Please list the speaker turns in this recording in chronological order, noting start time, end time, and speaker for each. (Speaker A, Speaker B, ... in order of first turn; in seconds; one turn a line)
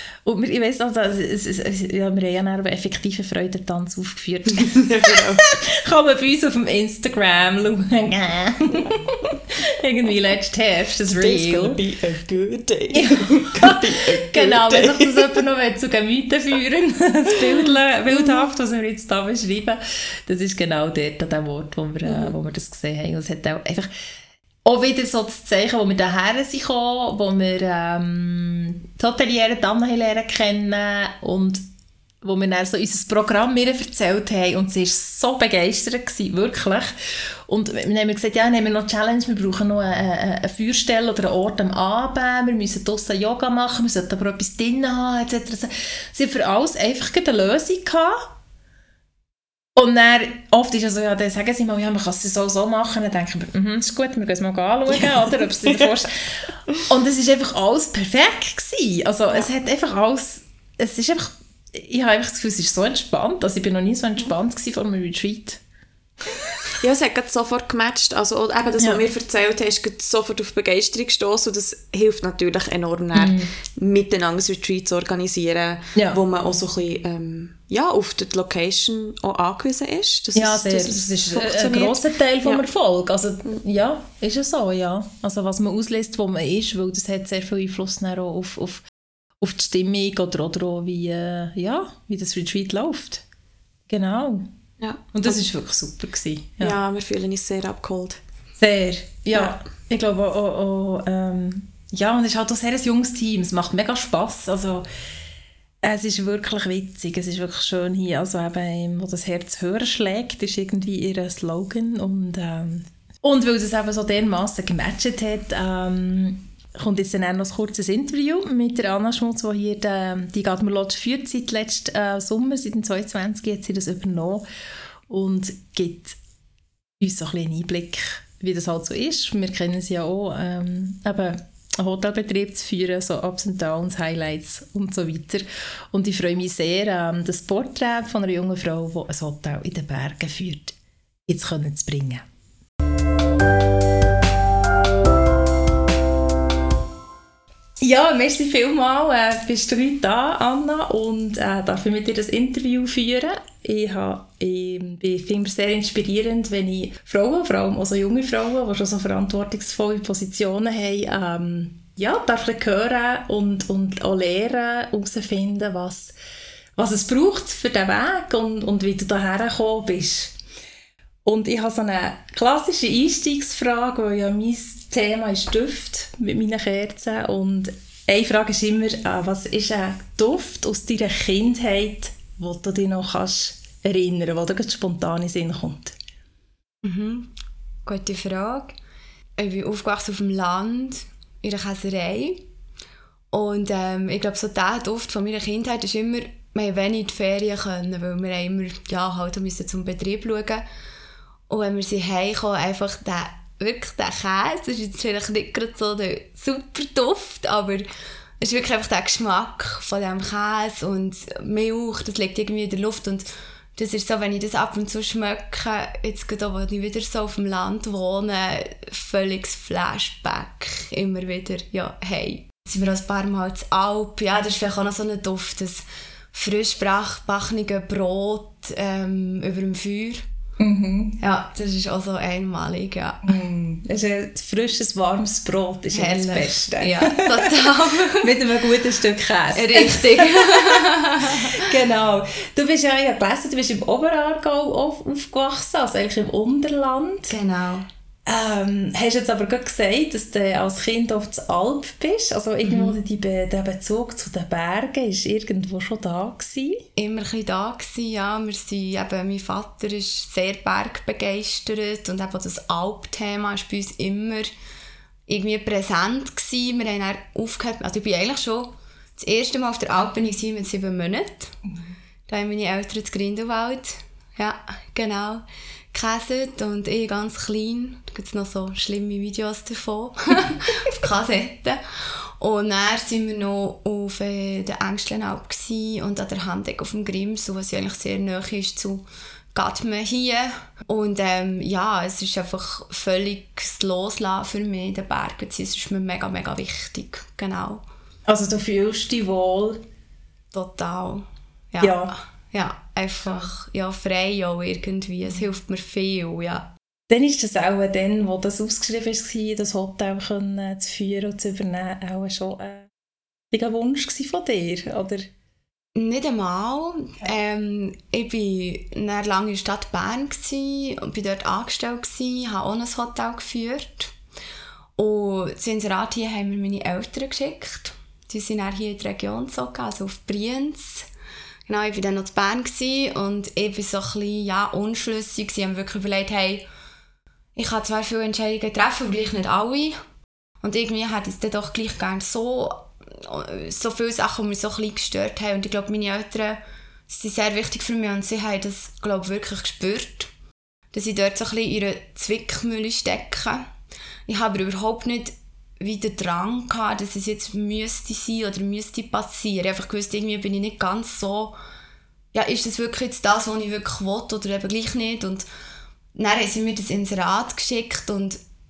Speaker A: 0.2-11.8
Speaker B: 4.5-5.5
Speaker B: 11.1-15.4
Speaker A: 12.9-23.9
Speaker B: 18.1-18.4
Speaker B: 22.0-22.3
Speaker A: 24.6-31.6
Speaker A: 32.2-36.9
Speaker A: 37.5-48.3
Speaker A: 49.8-65.6
Speaker B: 55.6-55.9
Speaker B: 66.7-82.6
Speaker A: 68.8-69.0
Speaker A: 73.1-73.5
Speaker A: 75.9-76.2
Speaker A: 80.3-88.8
Speaker A: 89.4-93.2
Speaker A: 93.9-94.5
Speaker B: 94.8-95.1
Speaker A: 95.1-96.7
Speaker B: 96.6-98.2
Speaker A: 98.6-104.8
Speaker A: 105.8-124.5
Speaker A: 125.1-126.2
Speaker A: 127.0-140.8
Speaker A: 141.3-142.2
Speaker A: 147.8-166.1
Speaker A: 166.8-170.4
Speaker A: 171.2-185.9
Speaker C: 186.8-187.3
Speaker C: 187.8-188.7
Speaker C: 189.4-192.4
Speaker C: 193.3-200.6
Speaker C: 201.5-207.8
Speaker C: 208.4-230.2
Speaker A: 230.6-231.2
Speaker C: 231.2-233.2
Speaker A: 233.2-247.3
Speaker C: 235.9-238.3
Speaker C: 239.5-241.6
Speaker C: 247.3-247.8
Speaker A: 248.2-256.9
Speaker C: 252.6-253.0
Speaker C: 256.9-264.5
Speaker C: 265.3-271.5
Speaker C: 272.3-297.8
Speaker A: 298.3-299.8
Speaker C: 300.5-306.7
Speaker A: 301.8-302.1
Speaker A: 307.1-312.9
Speaker A: 313.5-315.3
Speaker C: 315.9-324.1
Speaker C: 325.0-331.1
Speaker C: 331.7-336.6
Speaker C: 337.5-340.0
Speaker C: 340.6-350.3
Speaker C: 350.9-353.6
Speaker C: 354.3-361.6
Speaker C: 362.3-365.5
Speaker C: 366.1-368.4